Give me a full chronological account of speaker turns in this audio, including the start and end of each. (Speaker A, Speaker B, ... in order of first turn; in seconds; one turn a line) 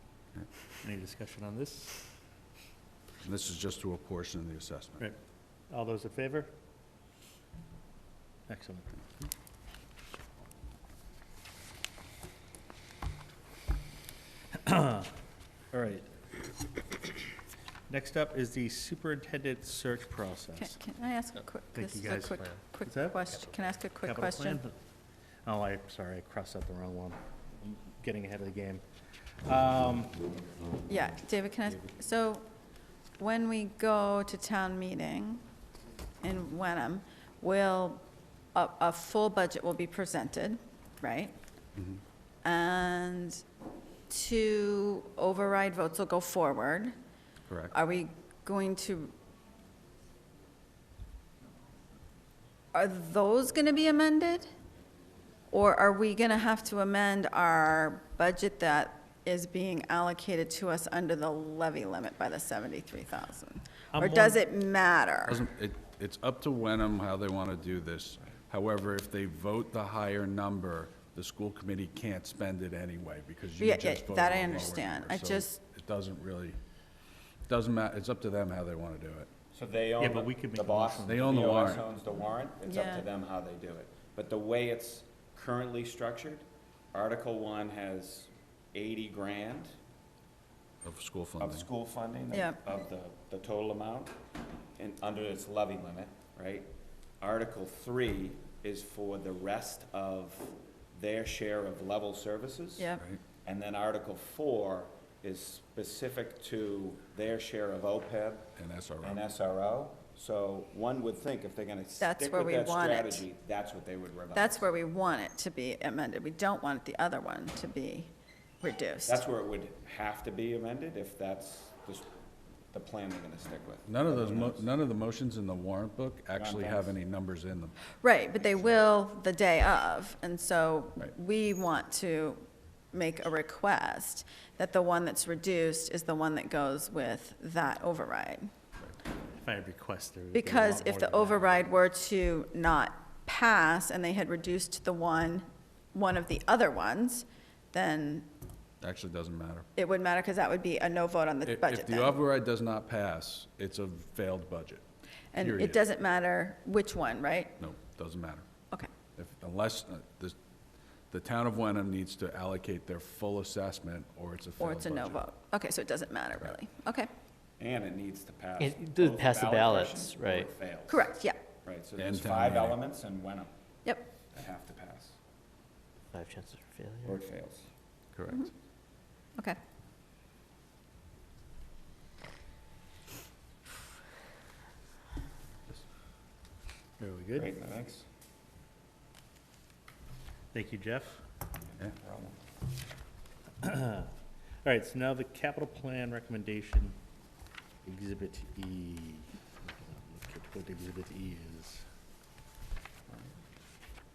Speaker A: 0.8-2.0
Speaker B: 3.2-5.1
Speaker A: 5.7-6.5
Speaker A: 8.5-8.9
Speaker A: 14.6-15.1
Speaker A: 15.7-16.1
Speaker A: 17.9-20.8
Speaker C: 20.6-24.6
Speaker A: 21.7-23.2
Speaker A: 24.0-24.8
Speaker A: 25.4-30.1
Speaker C: 30.9-32.5
Speaker C: 33.2-35.4
Speaker C: 36.2-38.0
Speaker C: 38.5-41.3
Speaker B: 41.8-42.0
Speaker C: 42.4-43.4
Speaker C: 44.1-46.9
Speaker B: 47.5-47.8
Speaker C: 47.7-49.1
Speaker C: 52.7-54.5
Speaker C: 55.5-65.4
Speaker A: 63.9-64.4
Speaker B: 65.3-76.6
Speaker C: 73.6-75.6
Speaker B: 77.5-79.3
Speaker D: 79.5-89.8
Speaker A: 80.0-81.8
Speaker B: 81.1-81.8
Speaker C: 82.7-83.1
Speaker B: 90.8-91.7
Speaker D: 91.4-94.2
Speaker C: 92.3-92.6
Speaker D: 94.8-102.9
Speaker C: 102.8-103.0
Speaker D: 103.4-114.7
Speaker B: 108.6-109.2
Speaker C: 112.0-113.3
Speaker C: 114.3-119.2
Speaker D: 119.1-122.1
Speaker D: 122.7-124.7
Speaker B: 123.9-127.8
Speaker D: 126.4-126.9
Speaker C: 128.0-138.5
Speaker A: 139.3-141.5
Speaker C: 140.3-148.3
Speaker B: 148.8-149.7
Speaker C: 149.8-152.2
Speaker B: 151.5-154.8
Speaker C: 155.3-157.6
Speaker B: 155.4-155.8
Speaker B: 157.6-158.5
Speaker B: 159.2-160.4
Speaker B: 161.1-165.2
Speaker C: 164.6-167.1
Speaker D: 167.6-171.1
Speaker E: 168.6-170.5
Speaker C: 170.9-171.4
Speaker D: 171.7-173.5
Speaker B: 172.0-172.8
Speaker C: 173.8-174.1
Speaker D: 174.3-175.2
Speaker E: 176.1-177.2
Speaker D: 177.0-177.7
Speaker A: 187.0-187.5
Speaker D: 187.3-188.1
Speaker A: 190.5-191.2
Speaker D: 191.7-192.4
Speaker A: 193.6-194.1
Speaker A: 194.6-197.0
Speaker A: 197.8-201.9